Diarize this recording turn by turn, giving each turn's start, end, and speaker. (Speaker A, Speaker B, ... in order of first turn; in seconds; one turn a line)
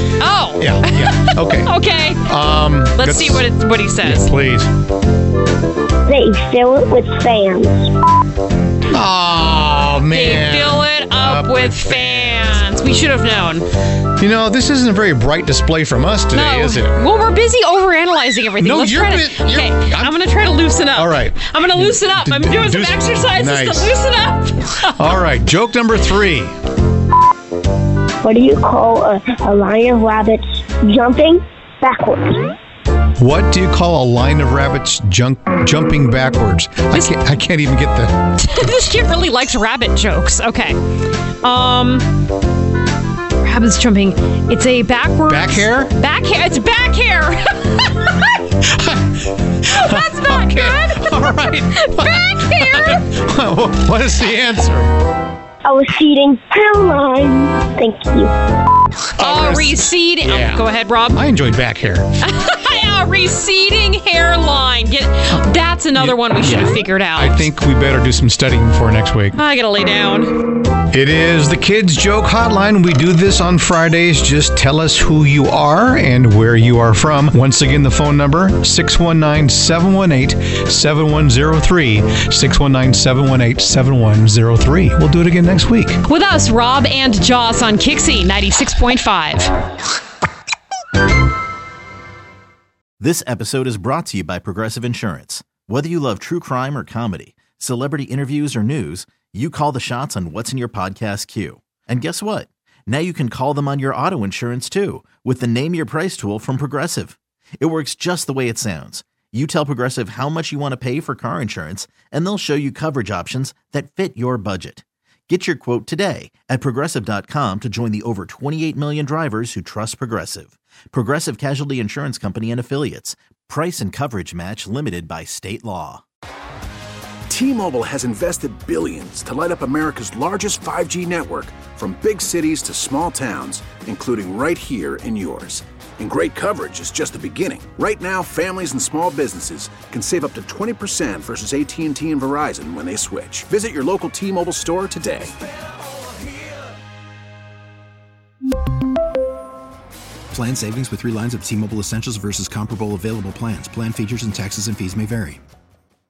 Speaker A: 0.2-2.3
Speaker B: 0.6-1.7
Speaker B: 2.2-3.5
Speaker A: 3.0-4.3
Speaker B: 4.0-4.7
Speaker C: 6.1-7.9
Speaker B: 8.9-12.6
Speaker A: 10.1-13.7
Speaker B: 14.2-17.0
Speaker A: 16.3-25.1
Speaker B: 18.6-20.1
Speaker B: 20.9-23.9
Speaker B: 24.9-26.5
Speaker C: 28.2-32.5
Speaker B: 33.2-38.2
Speaker A: 38.4-40.8
Speaker A: 41.4-42.1
Speaker A: 43.4-48.2
Speaker B: 45.3-45.9
Speaker B: 48.6-54.9
Speaker A: 49.7-53.0
Speaker C: 55.6-58.3
Speaker B: 59.2-62.1
Speaker A: 59.2-61.2
Speaker A: 62.2-67.5
Speaker B: 66.0-69.4
Speaker A: 69.3-70.4
Speaker B: 70.9-86.0
Speaker A: 86.1-89.5
Speaker D: 93.0-126.0
Speaker E: 127.3-145.3
Speaker F: 150.3-155.4